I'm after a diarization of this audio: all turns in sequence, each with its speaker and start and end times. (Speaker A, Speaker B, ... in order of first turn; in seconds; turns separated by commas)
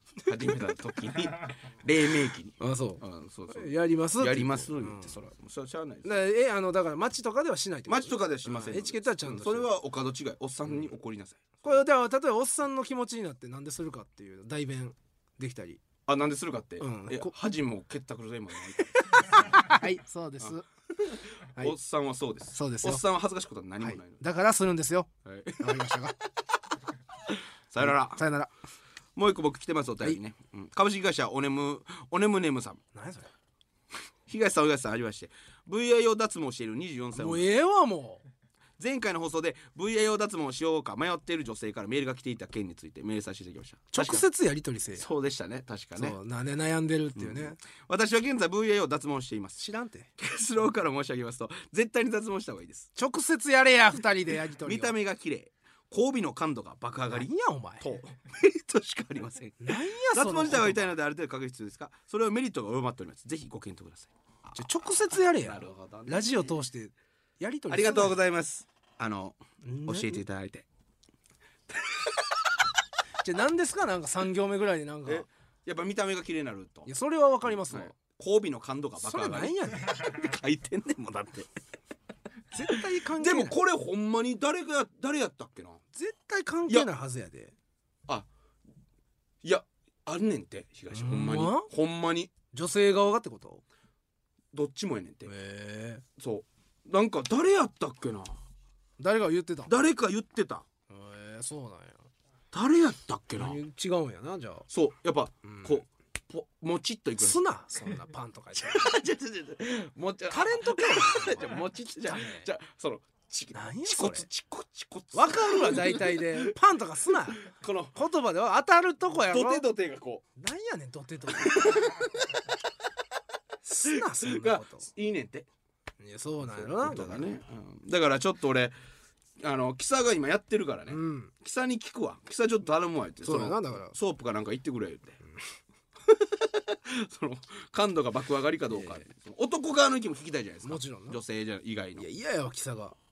Speaker A: 0.3-6.2, Speaker B: 2.6-5.2, Speaker B: 6.0-9.7, Speaker A: 7.9-11.6, Speaker B: 11.6-15.8, Speaker A: 16.1-19.6, Speaker B: 16.8-17.3, Speaker B: 19.1-20.6, Speaker A: 20.4-24.2, Speaker B: 22.5-23.0, Speaker B: 23.8-26.2, Speaker A: 25.2-25.9, Speaker A: 27.3-28.2, Speaker B: 27.8-28.5, Speaker A: 29.1-32.8, Speaker B: 32.9-33.3, Speaker A: 34.3-37.5, Speaker B: 37.1-38.2, Speaker A: 38.8-44.2, Speaker B: 43.9-45.1, Speaker A: 45.0-46.2, Speaker B: 46.0-47.6, Speaker A: 47.2-49.6, Speaker B: 49.6-50.1, Speaker A: 50.2-52.9, Speaker B: 53.0-55.0, Speaker A: 54.6-57.3, Speaker B: 57.1-57.9, Speaker A: 57.8-64.5, Speaker B: 59.6-60.9, Speaker B: 64.5-68.2, Speaker A: 65.2-66.5, Speaker A: 67.7-70.7, Speaker B: 69.6-70.2, Speaker A: 71.7-72.1, Speaker B: 73.2-75.3, Speaker A: 75.1-76.9, Speaker B: 76.9-77.9, Speaker A: 77.5-81.5, Speaker B: 79.0-80.0, Speaker B: 82.5-83.6, Speaker A: 82.7-85.8, Speaker B: 86.0-87.5, Speaker A: 89.4-92.3, Speaker B: 90.9-91.7, Speaker B: 92.5-93.6, Speaker A: 94.5-95.3, Speaker B: 95.3-96.0, Speaker A: 96.2-98.4, Speaker B: 99.0-99.7, Speaker A: 99.7-100.7, Speaker B: 100.9-102.1, Speaker A: 102.5-103.6, Speaker B: 103.4-104.7, Speaker A: 104.7-107.4, Speaker B: 105.4-105.8, Speaker B: 107.2-109.0, Speaker A: 108.5-116.5, Speaker B: 110.3-112.5, Speaker B: 113.5-114.3, Speaker B: 115.1-117.4, Speaker A: 117.4-118.0, Speaker B: 118.0-119.7, Speaker A: 119.2-120.2, Speaker B: 120.4-121.9, Speaker A: 121.3-122.4, Speaker B: 123.6-124.9, Speaker A: 123.9-125.5, Speaker B: 126.0-127.3, Speaker A: 126.5-128.7, Speaker A: 129.4-135.2, Speaker B: 130.9-131.3, Speaker B: 133.2-133.9, Speaker A: 136.1-142.1, Speaker B: 138.7-139.1, Speaker B: 140.6-141.2, Speaker B: 142.0-143.0